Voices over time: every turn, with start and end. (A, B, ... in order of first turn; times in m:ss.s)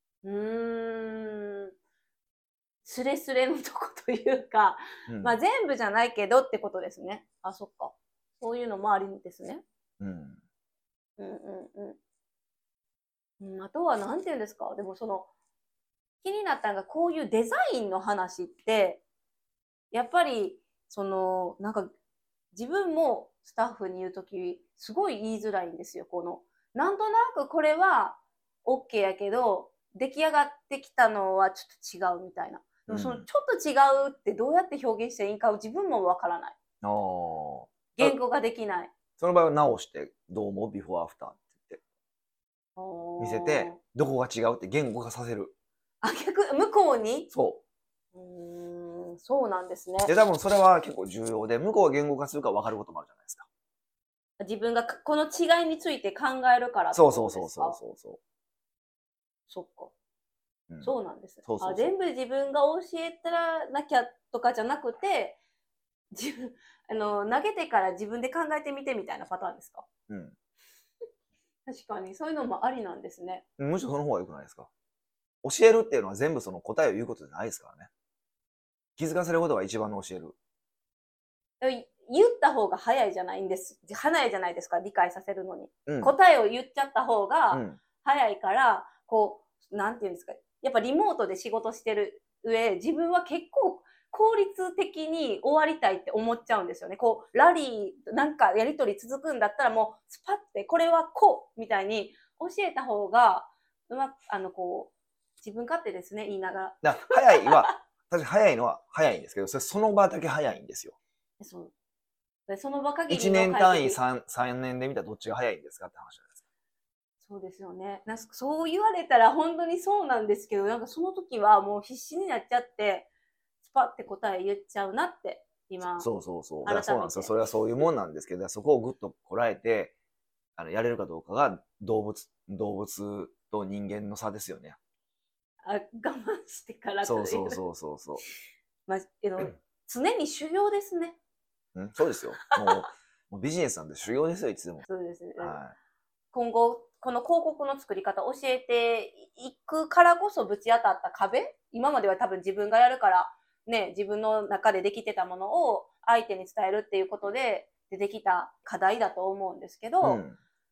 0:00.2-0:01.7 A
0:02.8-0:09.6 A
0:05.1-0:05.4 B
0:10.0-0:10.4 B
0:11.2-0:12.0 A
0:13.4-0:15.3 A
0:16.2-0:19.0 A
0:19.9-0:21.9 A
0:22.5-0:36.6 A
0:32.9-0:33.2 B
0:36.8-0:38.2 B
0:38.0-0:38.9 A
0:39.2-0:41.8 B
0:42.8-0:43.8 A
0:43.2-0:45.5 B
0:46.0-0:47.3 A
0:47.3-0:47.6 B
0:48.1-0:50.1 A
0:50.0-0:53.5 B
0:54.4-0:57.8 A
0:56.9-0:58.2 B
0:59.5-0:59.9 A
1:00.7-1:01.9 B
1:00.8-1:05.4 A
1:06.1-1:09.9 A
1:10.1-1:10.3 B
1:11.6-1:13.4 A
1:13.6-1:14.7 B
1:15.4-1:17.9 B
1:19.0-1:20.3 B
1:21.6-1:47.6 A
1:25.8-1:26.1 B
1:27.5-1:27.8 B
1:46.8-1:51.0 B
1:51.4-1:51.7 A
1:52.5-1:54.0 A
1:53.1-1:56.4 B
1:57.2-2:03.1 A
2:03.6-2:06.1 A
2:06.0-2:09.9 B
2:06.6-2:07.8 A
2:10.6-2:14.8 B
2:15.6-2:17.6 A
2:17.0-2:18.2 B
2:18.9-2:21.2 A
2:21.7-2:24.8 B
2:24.8-2:25.6 A
2:25.4-2:25.7 B
2:26.3-2:40.2 A
2:40.0-2:40.4 B